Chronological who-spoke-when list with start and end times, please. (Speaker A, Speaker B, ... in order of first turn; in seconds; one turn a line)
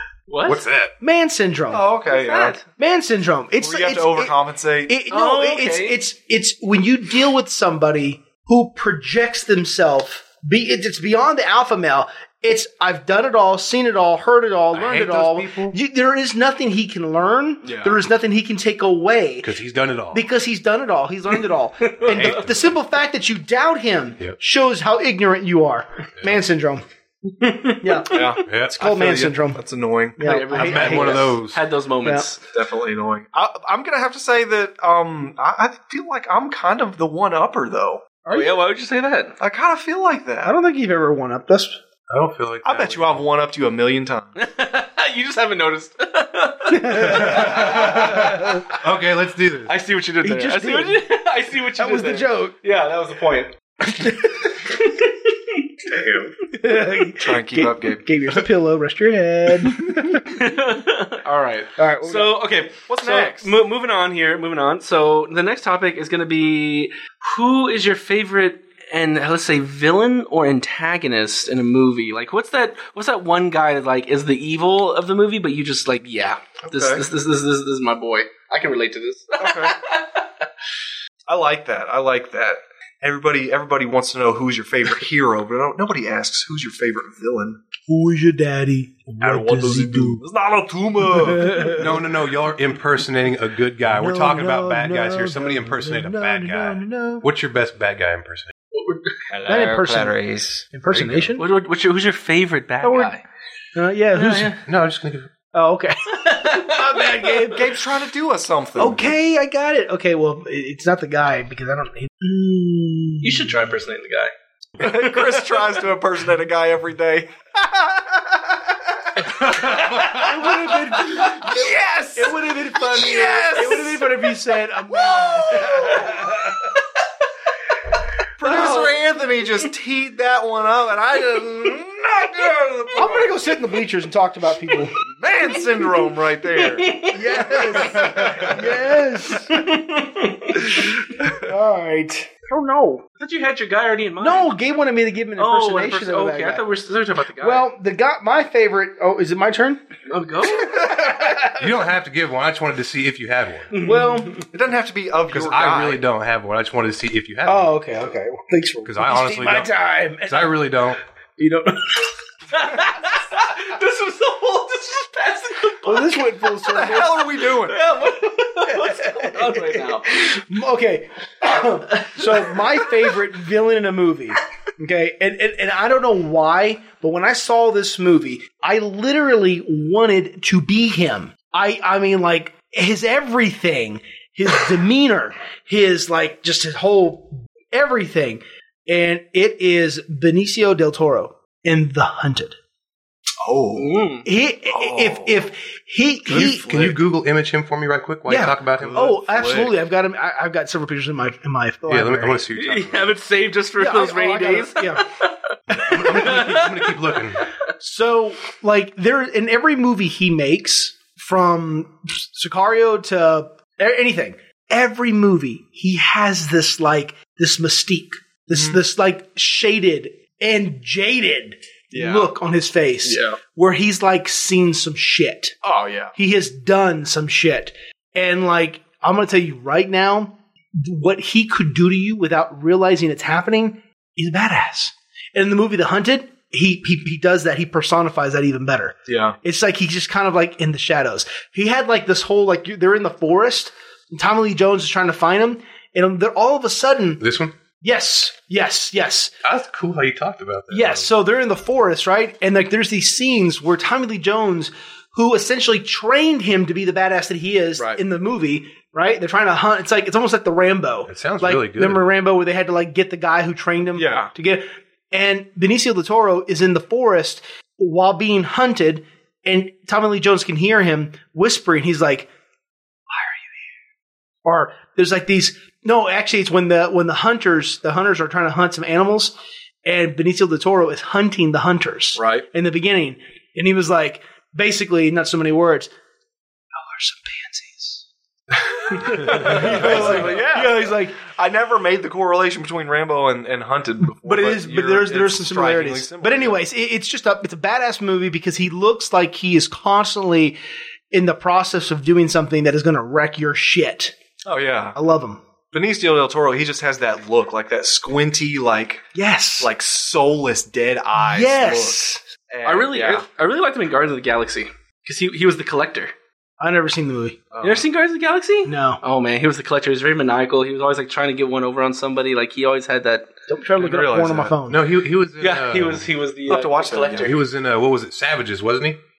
Speaker A: 0.3-0.6
Speaker B: 0.4-0.9
Speaker C: 1.0-1.9
Speaker D: 1.7-2.6
Speaker A: 2.0-2.6
Speaker C: 2.8-4.3
Speaker D: 3.6-5.0
Speaker C: 4.9-19.5
Speaker A: 5.1-6.0
Speaker B: 14.7-15.8
Speaker D: 17.6-18.0
Speaker B: 19.4-20.2
Speaker C: 20.1-26.8
Speaker B: 22.0-22.8
Speaker A: 27.4-28.4
Speaker C: 27.8-29.6
Speaker D: 28.1-30.2
Speaker B: 28.4-28.8
Speaker C: 30.2-31.4
Speaker A: 30.2-32.4
Speaker B: 30.5-31.6
Speaker D: 32.5-38.0
Speaker C: 38.2-38.6
Speaker A: 38.3-39.4
Speaker D: 39.4-40.5
Speaker C: 40.4-41.8
Speaker B: 42.1-43.2
Speaker D: 42.6-44.4
Speaker A: 44.4-48.4
Speaker C: 46.7-48.6
Speaker B: 47.0-49.7
Speaker A: 49.7-53.5
Speaker C: 50.2-51.0
Speaker C: 51.7-52.5
Speaker C: 53.9-54.5
Speaker A: 55.9-56.3
Speaker C: 56.5-60.2
Speaker D: 57.2-58.0
Speaker A: 59.7-80.3
Speaker C: 61.8-62.4
Speaker D: 62.9-63.5
Speaker D: 76.7-77.0
Speaker D: 79.4-79.7
Speaker D: 81.3-87.6
Speaker C: 87.9-90.2
Speaker D: 89.2-91.8
Speaker C: 91.1-91.9
Speaker B: 91.7-98.5
Speaker C: 93.9-97.3
Speaker A: 98.7-99.2
Speaker D: 99.3-100.7
Speaker C: 99.5-100.2
Speaker C: 100.7-101.4
Speaker B: 100.9-101.3
Speaker A: 101.4-103.2
Speaker C: 102.8-103.1
Speaker C: 103.7-104.5
Speaker A: 104.1-104.6
Speaker B: 104.6-105.3
Speaker C: 105.5-107.7
Speaker A: 106.2-107.3
Speaker D: 107.5-109.1
Speaker C: 108.8-113.5
Speaker A: 113.2-115.6
Speaker D: 114.8-118.5
Speaker B: 119.4-120.2
Speaker C: 119.4-126.6
Speaker A: 121.0-122.2
Speaker D: 121.1-124.0
Speaker D: 125.0-126.2
Speaker D: 128.4-133.4
Speaker C: 128.4-128.8
Speaker A: 128.5-128.8
Speaker C: 132.9-134.9
Speaker D: 135.0-138.6
Speaker A: 135.7-138.2
Speaker C: 137.1-139.7
Speaker A: 139.5-140.7
Speaker C: 140.5-143.0
Speaker A: 143.2-144.5
Speaker C: 144.2-146.6
Speaker A: 145.4-147.7
Speaker C: 147.4-149.8
Speaker A: 150.1-151.1
Speaker C: 150.7-151.6
Speaker B: 151.6-153.7
Speaker A: 153.7-154.4
Speaker C: 153.8-154.4
Speaker D: 154.5-156.0
Speaker B: 155.3-157.7
Speaker C: 157.4-160.5
Speaker B: 158.8-159.7
Speaker B: 160.2-161.0
Speaker A: 161.4-166.3
Speaker C: 165.8-167.3
Speaker D: 166.6-167.8
Speaker A: 167.5-170.3
Speaker C: 168.6-192.6
Speaker A: 172.0-172.7
Speaker D: 193.4-194.0
Speaker A: 193.8-194.2
Speaker C: 194.2-196.9
Speaker D: 194.7-195.4
Speaker B: 196.3-199.1
Speaker D: 196.3-197.0
Speaker C: 198.3-202.4
Speaker D: 198.8-199.8
Speaker B: 201.9-203.1
Speaker A: 202.5-205.3
Speaker C: 203.8-205.1
Speaker B: 205.7-207.5
Speaker C: 205.7-206.4
Speaker A: 206.0-206.9
Speaker C: 207.8-225.6
Speaker D: 218.5-218.8
Speaker D: 221.9-222.3
Speaker D: 223.0-223.4
Speaker D: 225.6-226.1
Speaker C: 226.2-247.2
Speaker D: 239.1-239.4
Speaker B: 247.2-247.5
Speaker C: 247.8-249.3
Speaker B: 249.4-251.1
Speaker C: 250.7-272.3
Speaker B: 261.1-262.1
Speaker D: 263.9-264.3
Speaker C: 273.1-273.6
Speaker C: 274.4-279.3
Speaker C: 279.8-285.9
Speaker D: 282.2-282.4
Speaker C: 286.7-288.0
Speaker D: 288.6-296.6
Speaker C: 288.9-291.2
Speaker B: 289.4-290.3
Speaker A: 289.5-290.2
Speaker C: 294.0-300.6
Speaker C: 301.1-304.1
Speaker D: 304.4-305.0
Speaker C: 304.9-305.4
Speaker D: 305.7-309.1
Speaker C: 309.1-309.7
Speaker D: 309.6-313.2
Speaker C: 311.1-312.2
Speaker A: 312.6-316.1
Speaker C: 316.6-317.4
Speaker D: 317.5-317.8
Speaker A: 317.6-323.3
Speaker C: 318.6-319.0
Speaker C: 323.5-324.8
Speaker D: 323.8-324.5
Speaker B: 324.7-326.1
Speaker A: 325.4-327.4
Speaker D: 326.5-327.3
Speaker B: 327.2-329.0